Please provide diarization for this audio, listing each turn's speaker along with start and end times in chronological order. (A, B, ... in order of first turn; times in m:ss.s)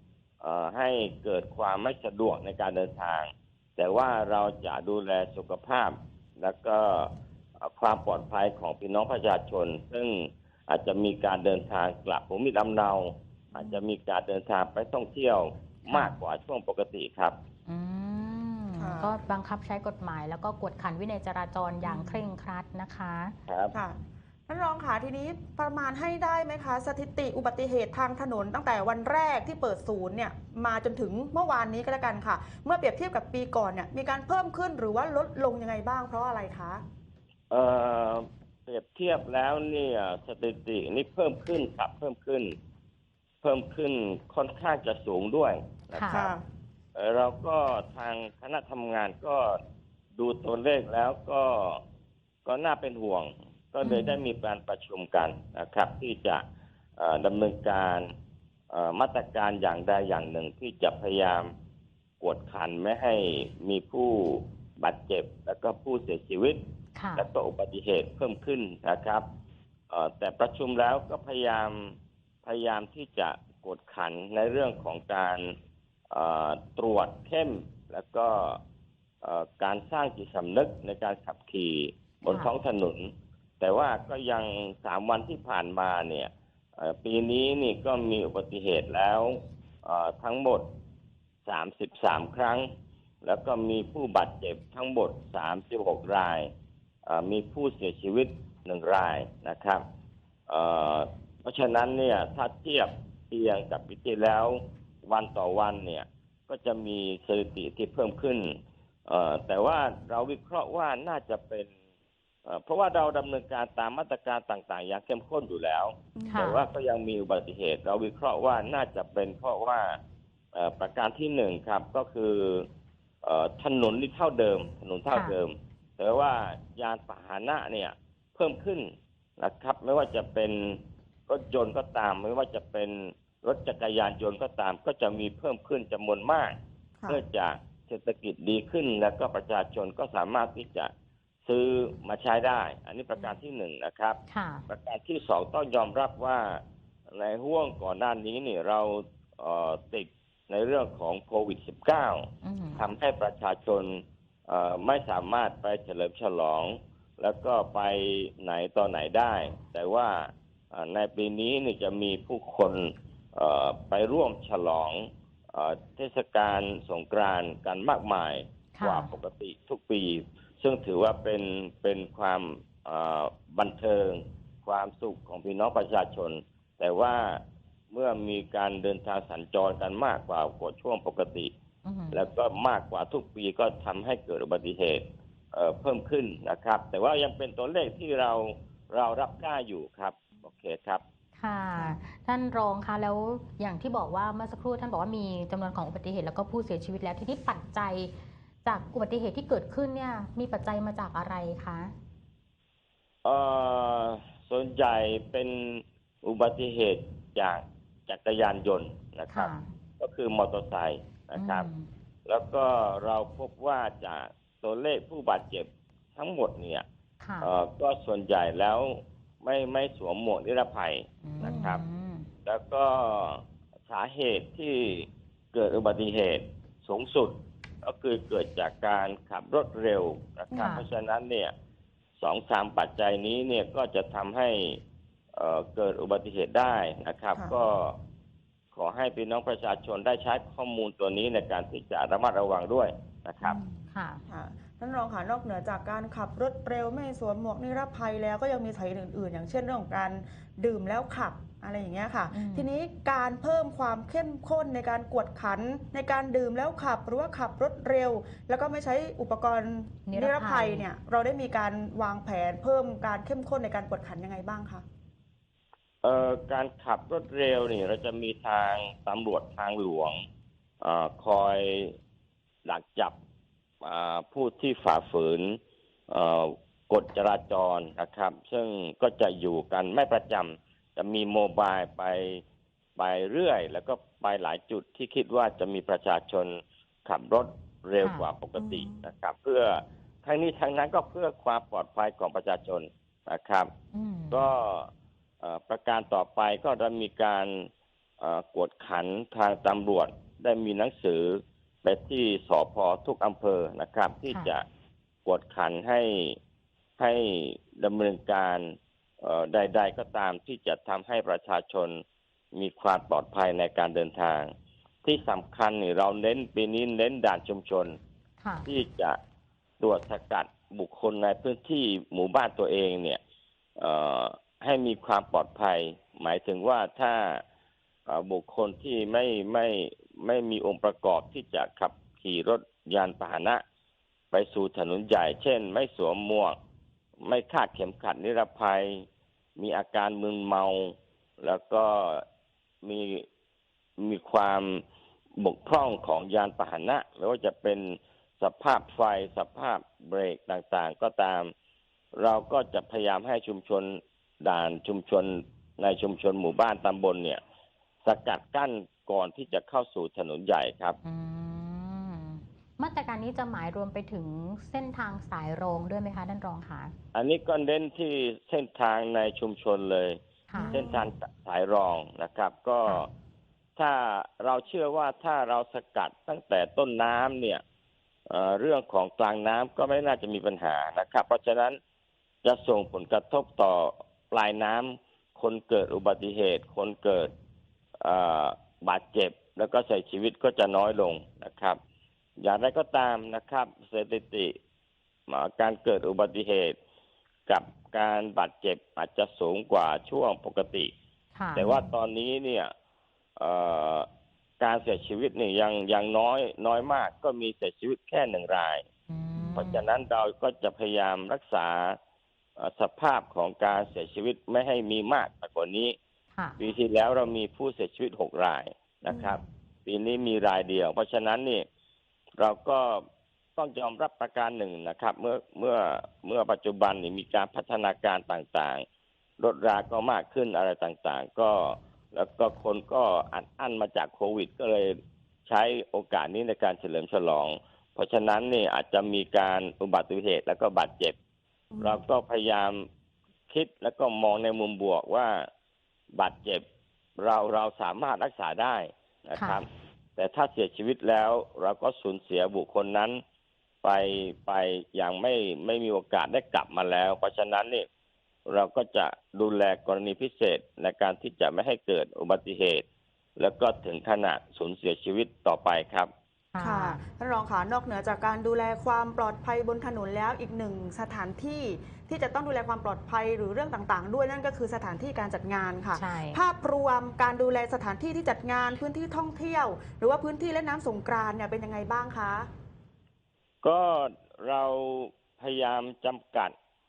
0:00.4-0:17.4 A
0:13.5-0:13.8 B
0:15.9-0:16.1 C
0:17.7-0:23.3 C
0:18.8-0:19.2 B
0:21.8-0:22.3 B
0:23.5-0:23.8 A
0:23.7-0:36.8 B
0:37.5-0:42.6 A
0:43.4-0:46.3 A
0:45.9-0:46.2 C
0:46.1-0:46.4 B
0:47.0-0:49.6 A
0:50.2-0:51.8 A
0:52.5-0:56.4 A
0:53.8-0:54.2 C
0:57.0-0:58.1 A
0:58.7-1:01.5 A
1:02.2-1:06.6 A
1:07.0-1:07.3 C
1:07.2-1:09.2 A
1:09.9-1:15.5 A
1:16.1-1:18.6 A
1:19.2-1:30.7 A
1:22.3-1:22.5 C
1:31.5-1:32.7 A
1:33.2-1:36.5 A
1:37.1-1:39.8 A
1:40.5-1:48.6 A
1:49.1-1:51.7 A
1:52.5-2:00.0 A
1:56.2-1:56.5 B
1:56.3-1:56.6 C
2:00.6-2:02.7 A
2:03.2-2:16.6 A
2:05.1-2:05.4 C
2:17.1-2:20.9 A
2:21.5-3:01.5 A
2:24.3-2:24.7 C
2:32.4-2:32.9 C
2:48.8-2:49.1 C
3:01.8-3:02.2 C
3:02.1-3:11.0 A
3:11.4-3:18.1 C
3:18.6-3:21.9 C
3:23.2-3:31.7 A
3:29.3-3:29.7 C
3:31.4-3:31.9 C
3:32.3-3:36.8 A
3:37.2-3:37.5 C
3:37.4-3:41.8 A
3:41.2-3:42.3 C
3:41.4-3:41.7 B
3:42.5-3:51.5 A
3:50.5-3:50.8 B
3:50.6-3:50.9 C
3:52.2-3:54.8 A
3:55.3-3:57.9 A
3:58.7-4:03.6 A
4:03.4-4:24.8 B
4:03.9-4:04.2 C
4:12.3-4:12.7 C
4:20.1-4:20.9 C
4:26.0-4:30.2 A
4:30.8-4:31.9 A
4:32.6-4:33.1 A
4:33.8-4:35.6 A
4:36.1-4:42.4 A
4:43.0-4:53.7 A
4:48.0-4:48.3 C
4:48.6-4:49.1 B
4:53.9-4:54.4 C
4:54.3-4:54.9 A
4:55.4-4:57.7 A
4:58.2-5:04.6 A
5:05.2-5:06.4 A
5:07.0-5:12.0 A
5:12.5-5:14.5 A
5:15.0-5:18.0 A
5:18.4-5:18.7 C
5:18.7-5:19.2 A
5:19.8-5:23.2 A
5:23.8-5:27.4 A
5:28.1-5:33.6 A
5:34.3-5:36.6 A
5:37.2-5:39.0 A
5:39.6-5:42.2 A
5:42.8-5:43.3 A
5:44.0-5:44.8 A
5:45.4-5:51.5 A
5:52.1-5:57.4 A
5:58.0-6:01.0 A
6:01.0-6:06.9 C
6:07.1-6:13.1 A
6:10.5-6:10.8 C
6:10.5-6:11.1 B
6:13.8-6:17.6 A
6:18.3-6:21.8 A
6:22.4-6:27.3 A
6:28.0-6:31.8 A
6:32.4-6:34.6 A
6:35.3-6:36.8 A
6:37.5-6:40.9 A
6:41.4-6:41.7 C
6:41.6-6:42.7 A
6:43.4-6:44.1 A
6:44.6-6:48.8 A
6:49.1-6:49.8 C
6:49.4-6:49.6 B
6:49.6-6:52.0 A
6:52.6-6:56.0 A
6:56.6-7:01.6 A
6:59.1-6:59.4 B
7:02.4-7:03.0 A
7:03.6-7:08.8 A
7:09.4-7:21.2 A
7:21.7-7:22.0 B
7:21.8-7:22.8 A
7:23.5-7:25.5 A
7:26.1-7:26.6 A
7:27.2-7:29.6 A
7:29.4-7:29.6 C
7:30.2-7:33.2 A
7:33.8-7:37.9 A
7:38.5-7:42.8 A
7:43.4-7:46.1 A
7:46.5-7:47.0 C
7:46.6-8:02.5 B
7:55.9-7:56.4 C
8:03.6-8:06.5 A